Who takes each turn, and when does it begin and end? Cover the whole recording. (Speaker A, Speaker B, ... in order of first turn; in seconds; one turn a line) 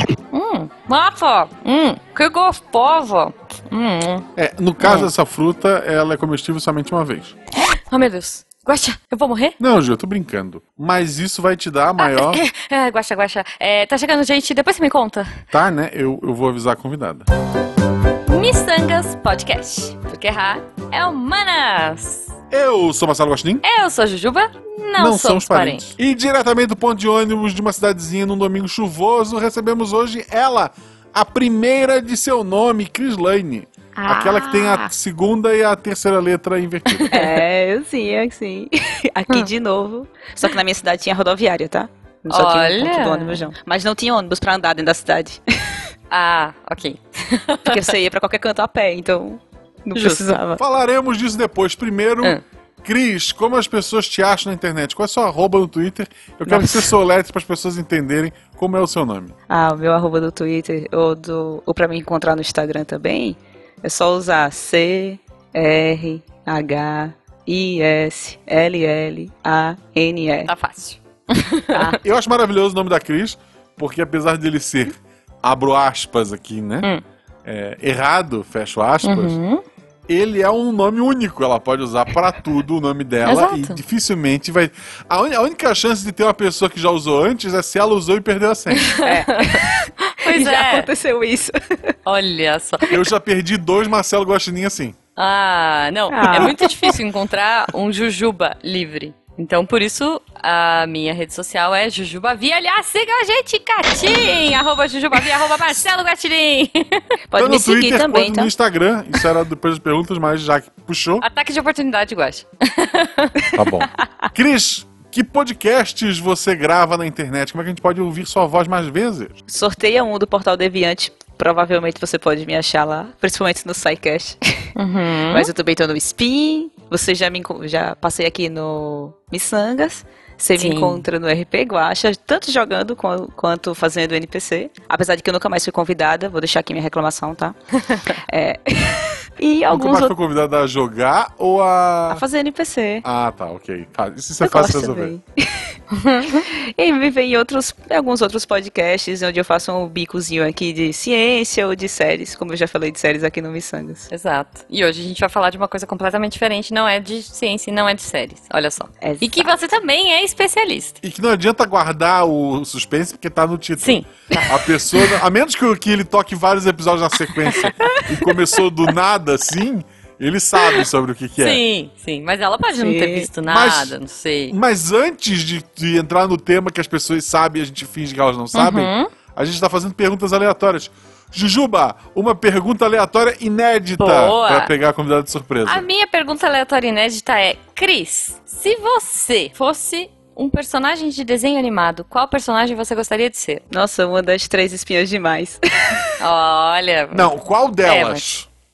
Speaker A: 0.3-4.3
Speaker B: 4.4-7.4
Speaker A: 4.8-5.1
Speaker A: 7.9-9.6
Speaker B: 9.6-12.4
Speaker A: 12.0-15.4
Speaker B: 15.5-17.3
Speaker A: 18.3-22.3
Speaker B: 22.5-23.6
Speaker A: 23.6-25.9
Speaker B: 25.0-37.2
Speaker A: 34.0-34.9
Speaker A: 36.9-37.3
Speaker C: 37.1-45.8
Speaker A: 42.3-43.5
Speaker A: 46.1-47.9
Speaker C: 47.6-50.6
Speaker A: 50.0-50.4
Speaker B: 50.6-59.3
Speaker C: 56.5-56.9
Speaker C: 59.5-70.5
Speaker A: 70.5-72.0
Speaker B: 72.0-76.9
Speaker B: 77.5-79.4
Speaker A: 79.0-79.6
Speaker B: 80.1-88.9
Speaker A: 83.2-83.8
Speaker A: 88.7-90.9
Speaker C: 89.0-92.0
Speaker A: 92.0-92.9
Speaker B: 92.9-95.0
Speaker A: 95.2-107.2
Speaker C: 96.1-96.8
Speaker B: 96.3-96.7
Speaker C: 107.3-108.5
Speaker B: 107.4-111.3
Speaker A: 111.2-113.5
Speaker B: 113.5-119.3
Speaker C: 119.5-124.7
Speaker A: 124.8-125.5
Speaker C: 125.3-140.2
Speaker A: 130.6-131.1
Speaker B: 139.7-142.2
Speaker C: 142.1-143.1
Speaker B: 143.0-145.1
Speaker C: 144.4-145.8
Speaker A: 145.9-146.4
Speaker C: 146.5-154.1
Speaker A: 154.1-161.0
Speaker C: 159.0-159.5
Speaker B: 161.0-171.6
Speaker A: 163.8-164.5
Speaker A: 171.4-174.6
Speaker C: 172.8-173.3
Speaker B: 173.4-174.0
Speaker B: 174.5-185.9
Speaker A: 178.5-179.1
Speaker A: 184.0-184.7
Speaker A: 185.7-193.6
Speaker C: 193.7-196.1
Speaker A: 196.2-197.3
Speaker B: 197.1-198.5
Speaker A: 197.8-198.3